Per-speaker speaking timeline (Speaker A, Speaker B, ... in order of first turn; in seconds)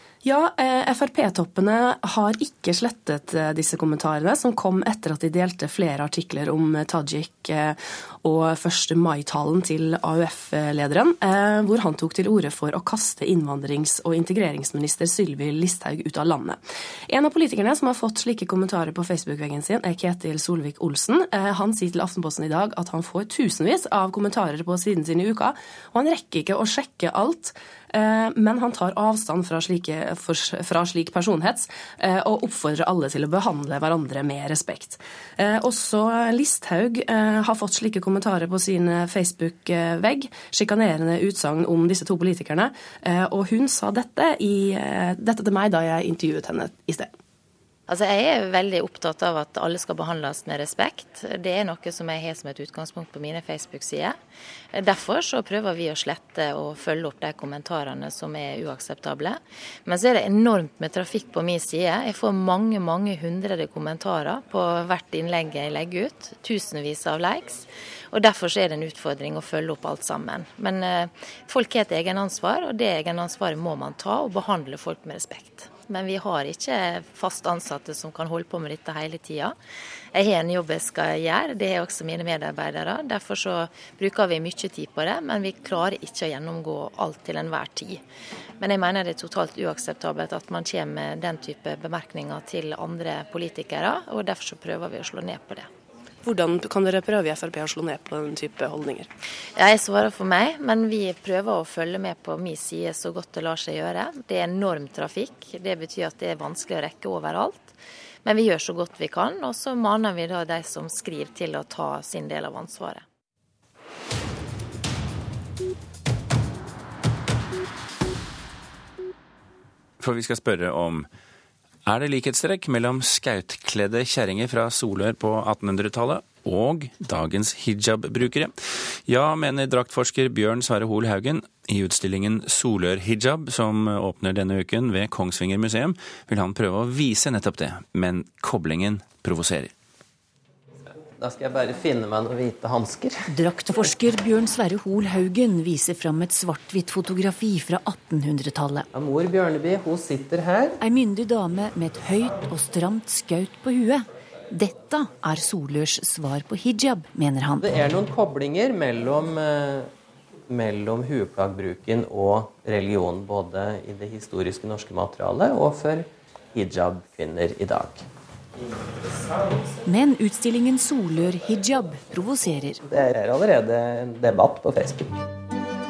Speaker A: 0.2-47.1, 96.2-99.1
Speaker B: 47.9-54.2, 54.7-79.6, 80.1-88.0, 88.6-95.7, 99.6-113.0
Speaker C: 120.0-121.1, 121.8-139.7
Speaker D: 141.1-143.3, 148.9-150.8, 157.6-159.9, 160.5-168.1, 169.0-169.7, 172.9-175.3
Speaker E: 143.3-148.9, 150.8-157.7, 169.9-172.8